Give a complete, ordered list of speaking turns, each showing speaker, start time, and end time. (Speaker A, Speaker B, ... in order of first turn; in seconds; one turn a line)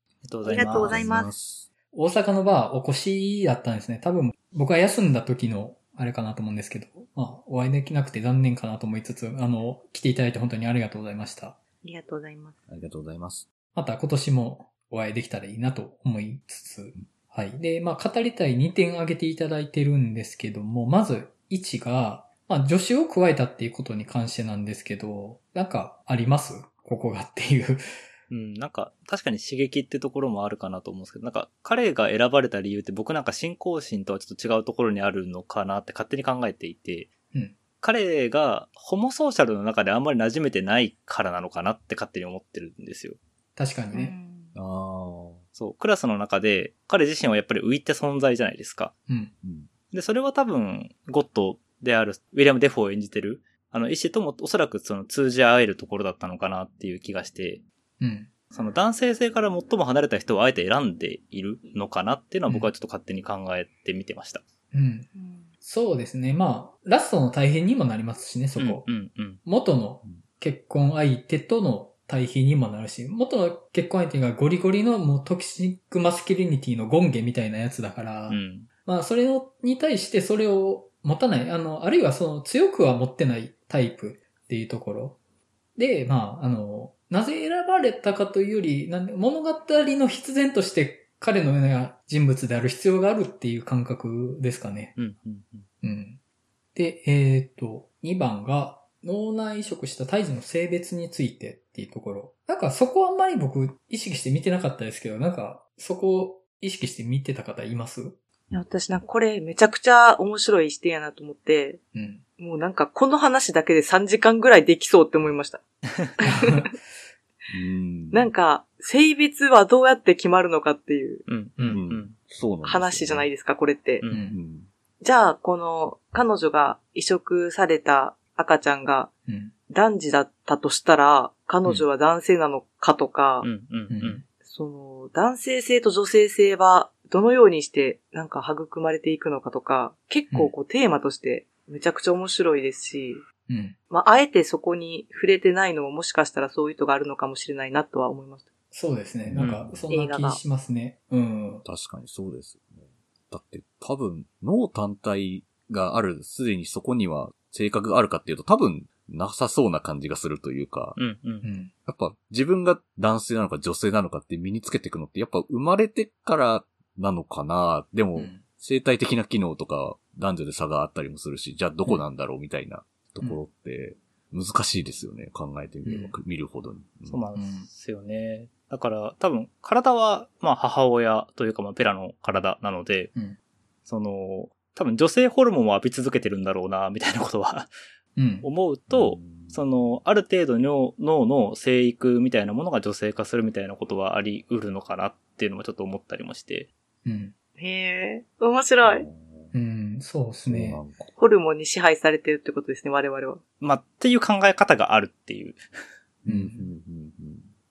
Speaker A: 0.2-1.0
Speaker B: 0.4-1.3
Speaker C: 0.7-1.7
Speaker D: 1.9-11.6
Speaker B: 11.8-12.6
Speaker C: 12.7-13.4
Speaker D: 13.8-27.8
Speaker A: 28.3-37.1
Speaker A: 37.8-43.2
Speaker D: 43.6-44.1
Speaker B: 43.9-44.5
Speaker C: 44.5-45.4
Speaker A: 45.6-48.9
Speaker C: 49.4-49.7
Speaker A: 49.9-57.6
Speaker D: 58.0-58.3
Speaker A: 58.5-64.4
Speaker D: 64.7-65.1
Speaker B: 65.1-65.5
Speaker D: 65.6-68.9
Speaker A: 68.6-69.4
Speaker D: 69.4-85.2
Speaker A: 78.3-78.7
Speaker D: 85.8-94.9
Speaker A: 95.0-95.7
Speaker D: 95.8-96.2
Speaker D: 96.8-108.2
Speaker B: 108.5-111.8
Speaker D: 111.9-112.2
Speaker B: 112.4-115.6
Speaker B: 116.2-116.7
Speaker D: 116.2-116.8
Speaker C: 117.5-118.3
Speaker B: 118.1-121.2
Speaker A: 121.3-122.1
Speaker C: 121.7-123.3
Speaker B: 122.6-124.0
Speaker D: 124.1-124.4
Speaker C: 124.2-124.7
Speaker B: 125.0-129.1
Speaker D: 129.3-129.5
Speaker B: 129.7-133.5
Speaker A: 133.4-134.2
Speaker D: 133.9-134.2
Speaker B: 134.4-143.2
Speaker D: 143.5-143.8
Speaker B: 143.9-148.5
Speaker D: 148.7-151.6
Speaker C: 149.3-149.8
Speaker A: 149.4-149.6
Speaker B: 149.9-150.4
Speaker C: 151.6-161.0
Speaker A: 161.0-161.5
Speaker D: 161.4-161.7
Speaker C: 161.9-177.2
Speaker D: 168.1-168.4
Speaker D: 175.8-176.1
Speaker A: 177.1-183.1
Speaker D: 177.3-177.7
Speaker A: 183.9-187.7
Speaker D: 188.2-188.5
Speaker A: 188.4-196.7
Speaker C: 188.9-189.6
Speaker D: 197.0-197.3
Speaker B: 197.6-199.1
Speaker C: 198.8-199.5
Speaker D: 199.5-200.8
Speaker C: 200.5-201.1
Speaker B: 201.2-203.4
Speaker A: 203.6-205.6
Speaker D: 206.2-206.7
Speaker C: 206.2-207.5